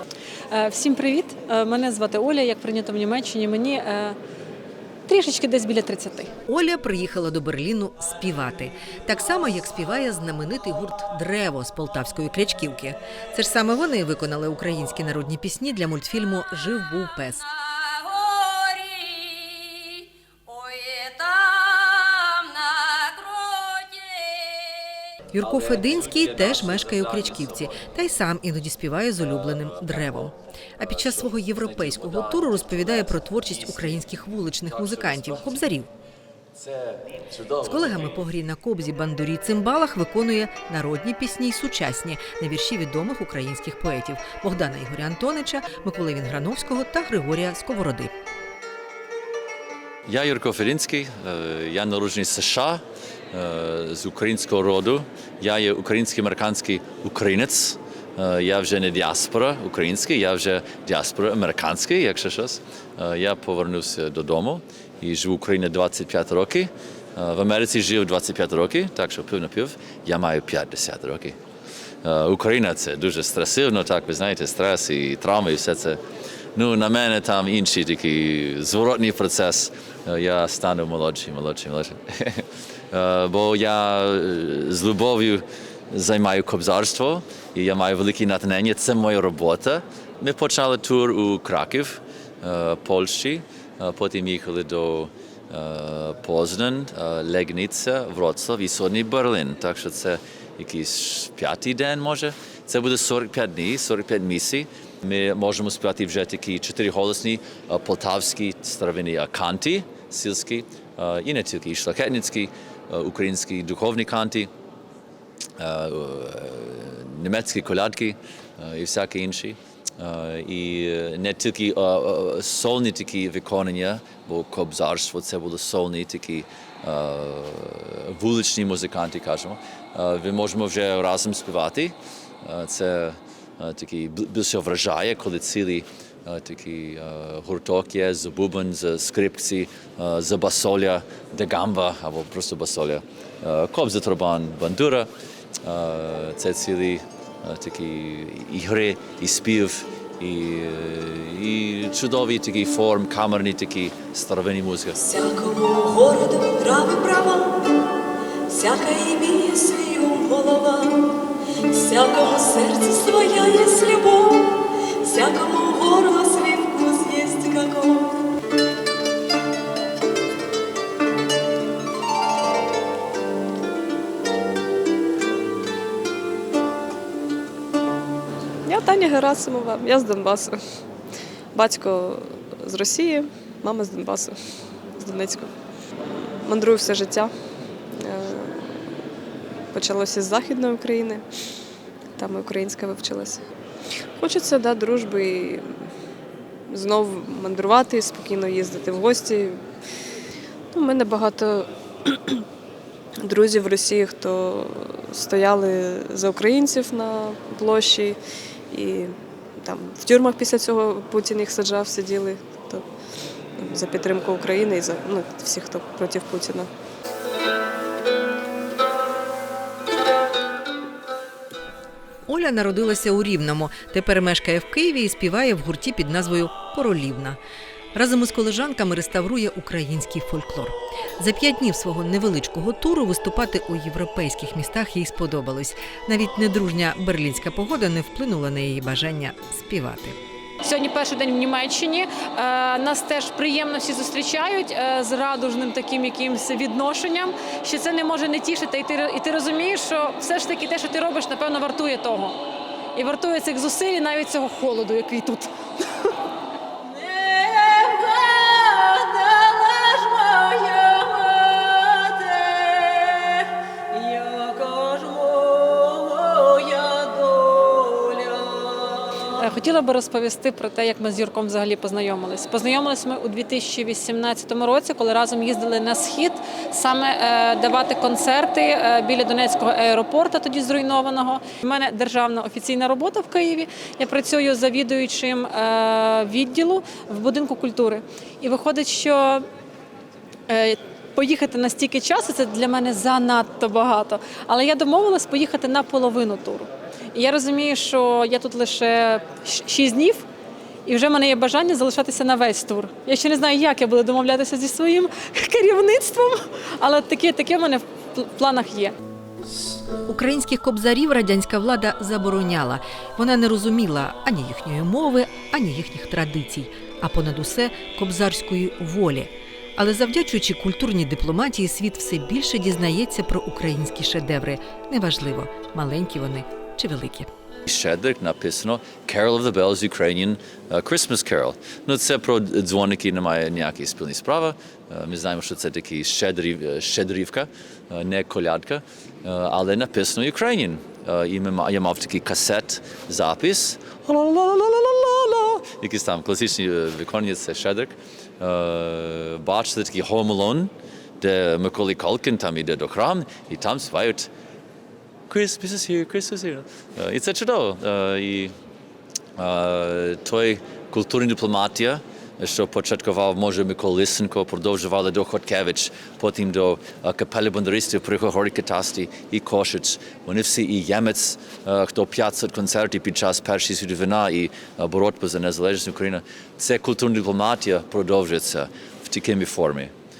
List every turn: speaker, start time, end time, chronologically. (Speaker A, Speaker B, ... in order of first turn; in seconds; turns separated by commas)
Speaker A: 0.5-4.2, Speaker A: 5.1-6.3, Speaker B: 6.5-17.4, Speaker A: 18.4-19.3, Speaker A: 20.6-24.0, Speaker B: 25.3-35.9, Speaker C: 25.4-27.8, Speaker C: 29.2-35.6, Speaker C: 36.5-38.2, Speaker B: 37.6-48.1, Speaker C: 50.0-71.4, Speaker C: 72.0-76.0, Speaker C: 76.5-114.5, Speaker C: 115.6-145.1, Speaker C: 145.6-155.1, Speaker D: 155.2-157.2, Speaker D: 158.9-159.7, Speaker D: 161.7-164.0, Speaker E: 163.7-164.3, Speaker D: 165.1-165.8, Speaker E: 166.7-167.9, Speaker E: 178.7-180.6, Speaker E: 181.5-184.4, Speaker E: 184.9-185.5, Speaker E: 186.0-187.3, Speaker E: 188.0-188.9, Speaker E: 189.7-191.2, Speaker E: 192.2-193.4, Speaker E: 194.2-195.8, Speaker E: 196.7-199.6, Speaker E: 200.7-202.4, Speaker E: 203.2-208.2, Speaker E: 208.7-212.8, Speaker E: 213.6-216.7, Speaker B: 222.3-227.4, Speaker B: 227.9-240.2, Speaker A: 240.6-252.4, Speaker A: 252.9-255.5, Speaker A: 256.8-289.4, Speaker A: 290.5-300.2, Speaker A: 300.9-308.9, Speaker B: 310.1-327.3, Speaker C: 327.6-354.3, Speaker C: 355.3-358.5, Speaker C: 359.4-379.9